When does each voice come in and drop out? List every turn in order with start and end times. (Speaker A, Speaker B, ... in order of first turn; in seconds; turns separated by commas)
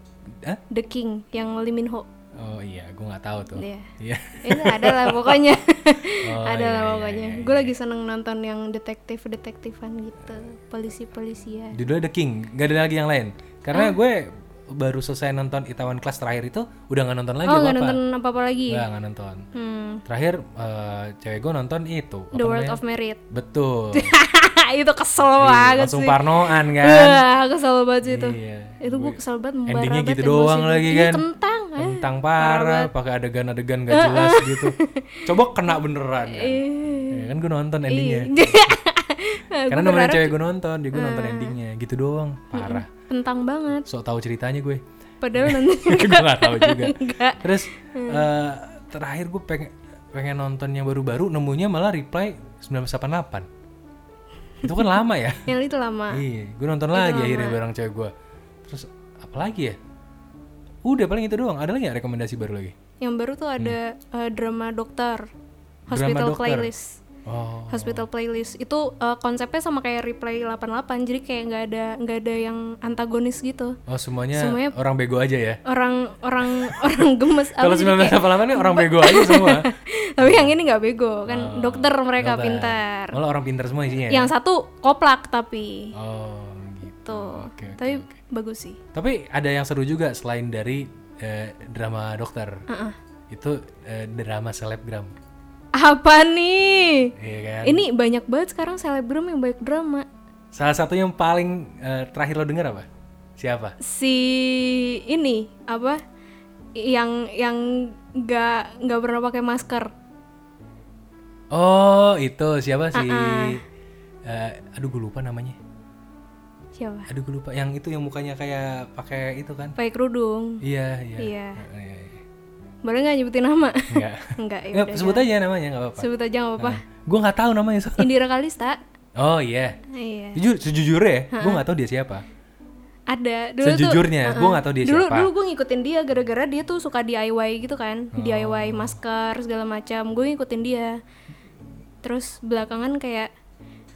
Speaker A: 0.7-2.1, Speaker B: 2.4-5.4, Speaker A: 3.6-3.9, Speaker A: 4.4-11.8, Speaker B: 6.1-7.7, Speaker B: 11.7-18.0, Speaker A: 17.4-18.8, Speaker B: 18.7-19.5, Speaker A: 19.5-20.0, Speaker B: 20.1-22.8, Speaker A: 22.3-23.2, Speaker B: 23.3-24.2, Speaker A: 23.9-32.9, Speaker B: 25.4-27.2, Speaker B: 28.0-31.2, Speaker B: 31.8-38.7, Speaker A: 33.9-35.2, Speaker A: 36.2-37.3, Speaker A: 37.9-40.4, Speaker B: 39.7-42.9, Speaker A: 40.9-41.6, Speaker A: 42.5-43.9, Speaker B: 43.9-44.8, Speaker A: 45.2-48.3, Speaker B: 45.4-53.5, Speaker B: 54.6-55.5, Speaker A: 55.5-56.2, Speaker B: 56.1-58.1, Speaker A: 56.9-57.6, Speaker B: 58.7-59.8, Speaker B: 60.9-62.8, Speaker A: 63.0-65.3, Speaker B: 65.9-66.7, Speaker A: 65.9-67.0, Speaker B: 67.3-68.1, Speaker A: 67.7-73.8, Speaker B: 73.9-75.6, Speaker A: 74.3-74.7, Speaker A: 75.7-83.2, Speaker B: 76.5-76.8, Speaker B: 77.5-80.5, Speaker B: 81.3-84.3, Speaker A: 84.0-85.9, Speaker B: 85.9-88.2, Speaker A: 87.0-88.8, Speaker B: 88.9-92.6, Speaker A: 92.7-93.0, Speaker B: 93.3-95.1, Speaker A: 95.7-97.1, Speaker B: 97.2-97.8, Speaker A: 97.6-100.1, Speaker B: 100.5-102.9, Speaker B: 103.4-103.8, Speaker A: 103.8-106.0, Speaker A: 106.8-109.9, Speaker B: 111.5-113.6, Speaker A: 112.9-113.6, Speaker B: 114.2-115.6, Speaker A: 116.8-117.1, Speaker B: 117.1-119.8, Speaker A: 119.8-120.6, Speaker B: 120.6-122.2, Speaker A: 121.2-121.6, Speaker A: 122.8-125.3, Speaker B: 123.9-128.1, Speaker A: 126.0-126.8, Speaker A: 128.0-128.8, Speaker B: 129.2-129.8, Speaker A: 129.9-130.4, Speaker B: 130.3-132.2, Speaker A: 131.3-131.6, Speaker A: 133.1-141.0, Speaker B: 133.6-135.3, Speaker B: 138.1-139.0, Speaker A: 142.0-143.3